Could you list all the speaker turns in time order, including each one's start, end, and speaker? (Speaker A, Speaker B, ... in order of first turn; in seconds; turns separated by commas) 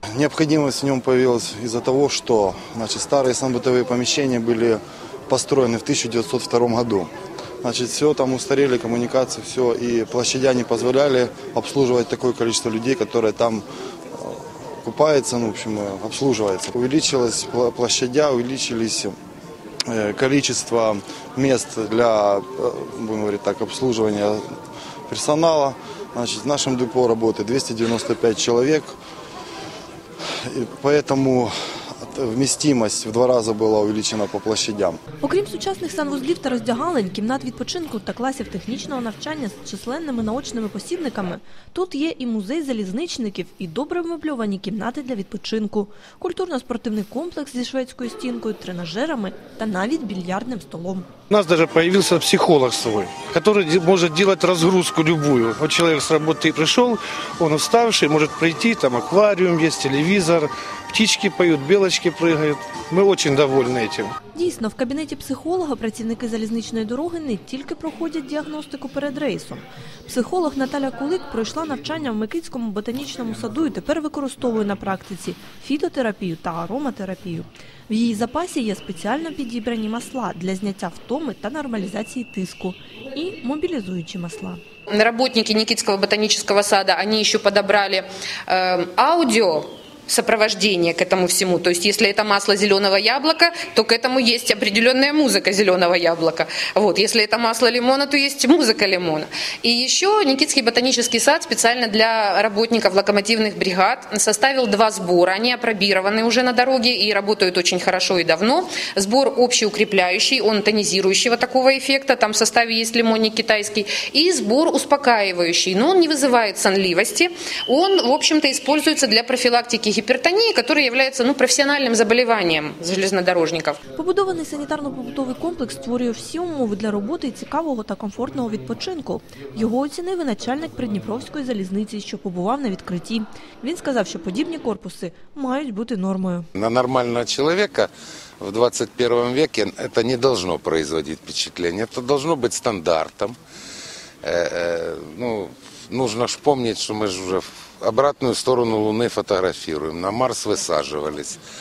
Speaker A: 0.1-7.1, Speaker A: 7.6-13.6, Speaker A: 14.1-19.1, Speaker A: 19.9-24.4, Speaker A: 25.1-28.9, Speaker A: 30.4-35.0, Speaker B: 35.2-51.1, Speaker C: 51.3-64.1, Speaker B: 64.3-84.6, Speaker D: 84.9-123.8, Speaker B: 124.0-136.5, Speaker E: 136.5-143.4, Speaker E: 144.2-151.4